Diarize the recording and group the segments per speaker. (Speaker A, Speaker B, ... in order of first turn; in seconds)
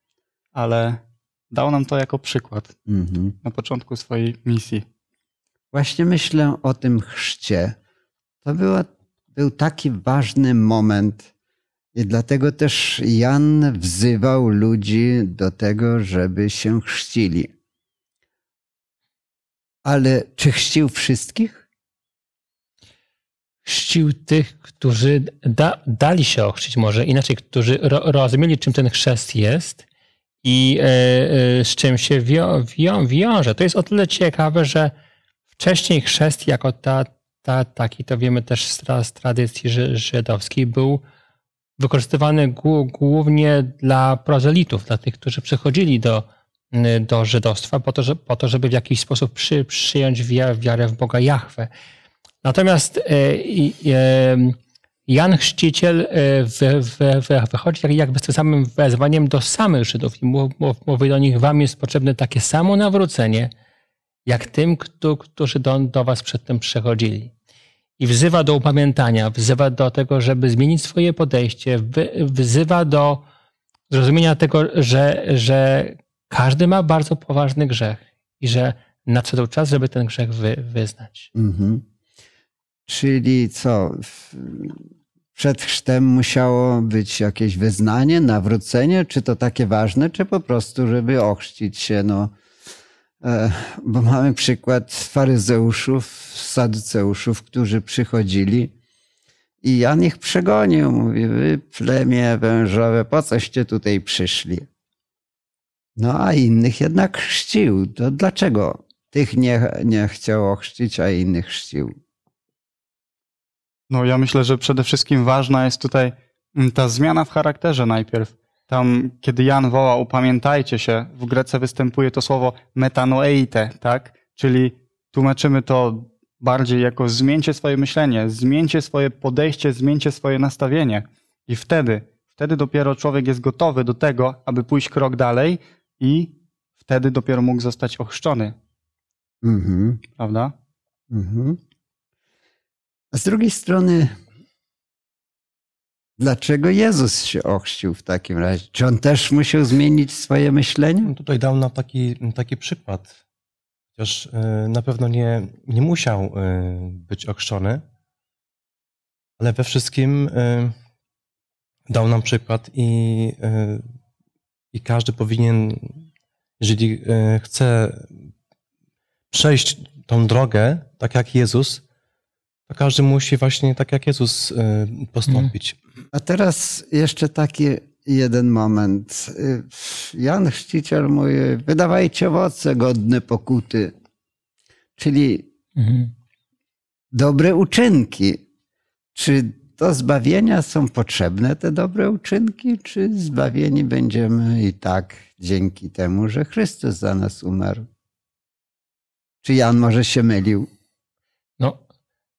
Speaker A: 0.5-2.7, 3.4-4.8, 113.9-138.6, 140.2-140.5
Speaker B: 2.9-3.4, 5.7-7.8, 8.4-11.3, 11.9-17.5, 19.8-21.7, 81.3-81.8, 82.9-84.8, 85.3-92.3, 93.2-98.7, 99.6-104.7, 106.0-111.9, 139.4-140.0, 141.1-141.6, 143.1-144.1, 146.2-151.1, 176.1-183.9, 185.0-185.5, 187.1-188.4, 189.2-197.9, 199.4-200.7
Speaker C: 23.6-29.8, 30.4-34.9, 35.6-41.0, 41.8-51.7, 52.4-54.6, 55.1-63.5, 64.3-67.3, 68.0-73.2, 73.9-81.3, 185.8-186.1
Speaker D: 151.1-153.2, 154.0-157.8, 159.4-160.7, 161.9-163.8, 164.7-166.0, 166.6-168.2, 169.3-171.8, 172.7-175.8